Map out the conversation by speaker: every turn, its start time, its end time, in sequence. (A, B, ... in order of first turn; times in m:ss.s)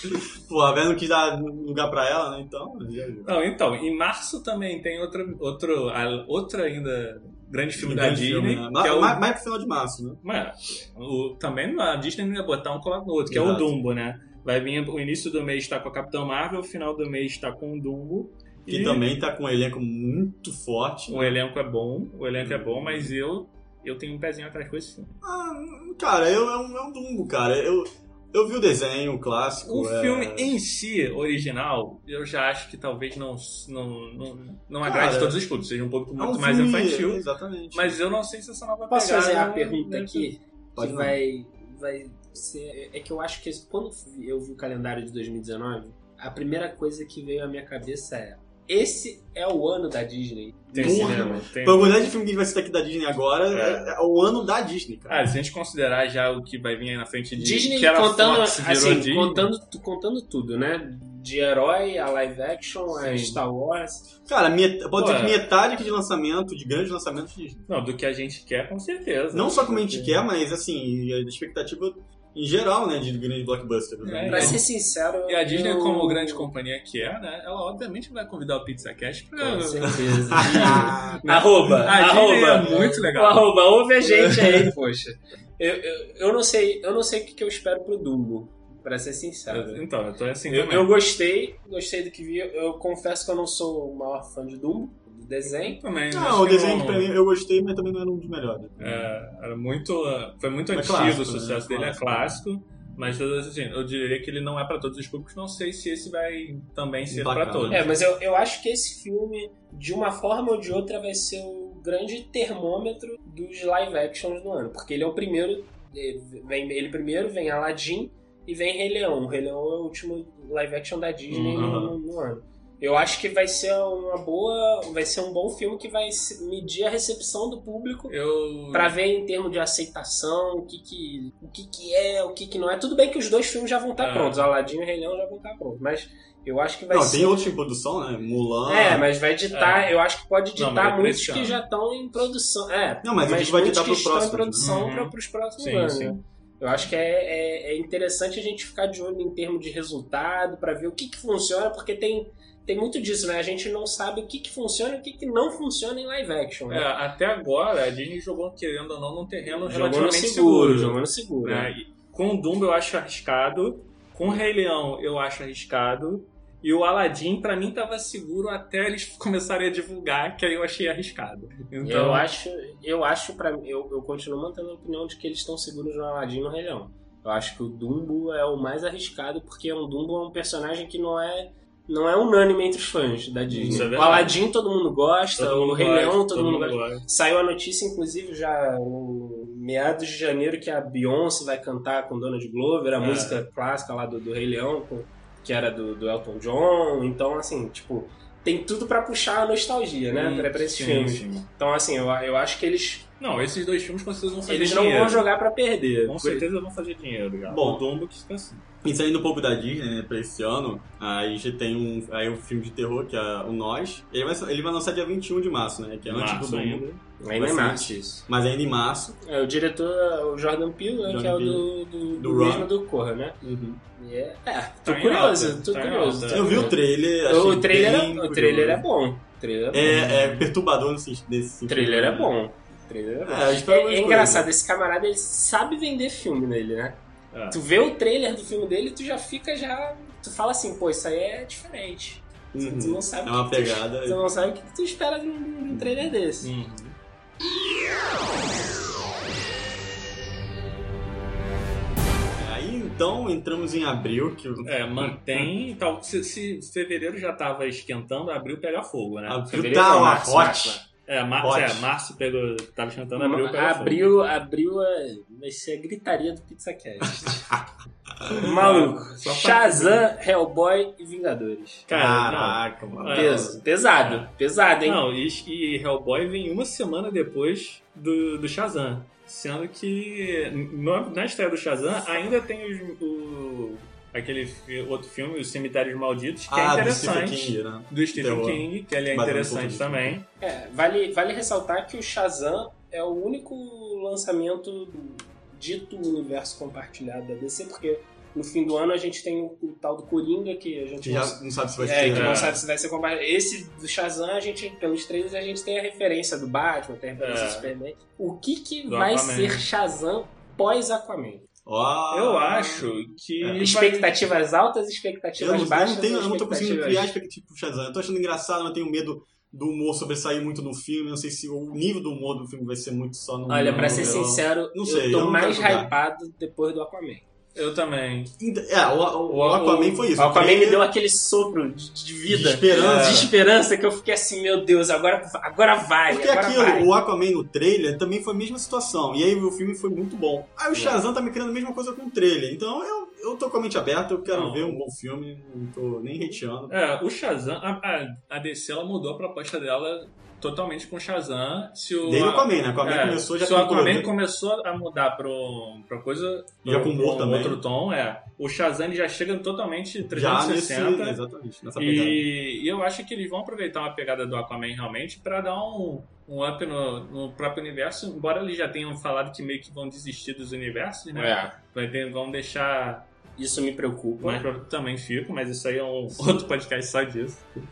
0:00.5-0:03.4 A
0:03.2-0:09.2 B
0:07.8-0:10.2 A
0:10.2-0:19.0 B
0:13.3-0:13.7 A
0:18.7-0:21.4 A
0:21.1-0:25.1 B
0:22.4-0:23.2 A
0:25.2-0:30.6 A
0:29.6-0:40.3 B
0:34.8-0:35.4 A
0:36.2-0:38.0 A
0:38.9-0:51.4 C
0:40.8-0:41.2 A
0:50.7-0:52.0 B
0:50.8-0:55.2 A
0:53.5-0:53.9 B
0:55.1-0:59.5 B
0:57.4-1:04.1 C
1:03.0-1:03.4 B
1:04.3-1:07.7 A
1:05.0-1:05.4 B
1:07.7-1:10.2 B
1:09.3-1:14.6 A
1:14.0-1:14.7 B
1:14.3-1:16.5 C
1:15.3-1:24.7 B
1:19.4-1:29.8 C
1:20.4-1:21.2 A
1:29.5-1:30.9 B
1:30.5-1:35.8 C
1:35.4-1:37.1 B
1:36.1-1:39.0 A
1:38.8-1:47.9 B
1:40.7-1:42.3 A
1:47.1-1:47.9 A
1:47.7-2:08.2 C
2:01.3-2:01.9 B
2:01.6-2:01.9 A
2:08.1-2:09.0 B
2:08.7-2:17.5 C
2:14.0-2:14.5 B
2:16.9-2:19.1 A
2:18.7-2:36.9 C
2:19.5-2:20.0 B
2:20.6-2:21.6 B
2:23.0-2:24.7 A
2:24.6-2:26.2 B
2:36.7-2:52.3 B
2:39.6-2:41.7 C
2:51.8-3:23.1 C
3:03.5-3:04.4 B
3:03.6-3:03.9 A
3:05.4-3:07.0 B
3:13.0-3:13.4 B
3:20.1-3:21.5 B
3:23.2-3:25.3 B
3:24.5-3:26.5 C
3:26.0-3:28.6 B
3:27.5-3:27.8 A
3:28.8-3:39.2 A
3:36.1-3:37.0 B
3:37.2-3:38.2 C
3:39.2-3:43.4 C
3:41.0-3:42.7 A
3:43.4-3:43.8 A
3:44.0-3:50.2 C
3:44.8-3:46.7 B
3:46.3-3:48.8 A
3:49.7-3:52.4 A
3:51.7-3:57.0 C
3:53.3-3:54.5 A
3:57.3-3:57.6 B
3:57.5-4:06.5 C
4:02.5-4:04.3 A
4:05.7-4:06.1 A
4:06.4-4:07.0 B
4:12.4-4:15.5 A
4:14.6-4:19.5 B
4:19.3-4:20.8 A
4:19.5-4:20.8 C
4:21.1-4:24.2 B
4:21.4-4:21.9 A
4:23.2-4:27.5 C
4:28.3-4:30.1 B
4:28.3-4:31.9 C
4:31.9-4:34.3 B
4:31.9-4:33.6 A
4:33.1-4:35.0 C
4:34.8-4:50.3 B
4:46.5-4:50.2 A
4:50.4-5:11.5 C
5:01.0-5:02.6 A
5:02.0-5:02.6 B
5:07.2-5:07.7 B
5:08.9-5:09.7 B
5:11.7-5:12.9 A
5:12.1-5:14.1 B
5:13.4-5:13.7 A
5:13.6-5:17.2 C
5:15.4-5:25.9 A
5:23.5-5:27.2 C
5:23.6-5:24.3 B
5:27.6-5:28.3 B
5:28.4-5:30.9 A
5:29.3-5:30.2 B
5:30.2-5:36.9 C
5:32.3-5:33.3 A
5:32.7-5:33.3 B
5:36.1-5:46.8 A
5:40.7-5:41.0 C
5:44.3-5:44.8 B
5:46.7-6:01.2 B
5:52.0-5:54.1 A
5:56.6-5:57.6 A
6:00.1-6:02.3 A
6:01.8-6:13.1 B
6:11.2-6:11.5 C
6:13.4-6:14.5 C
6:14.2-6:17.5 B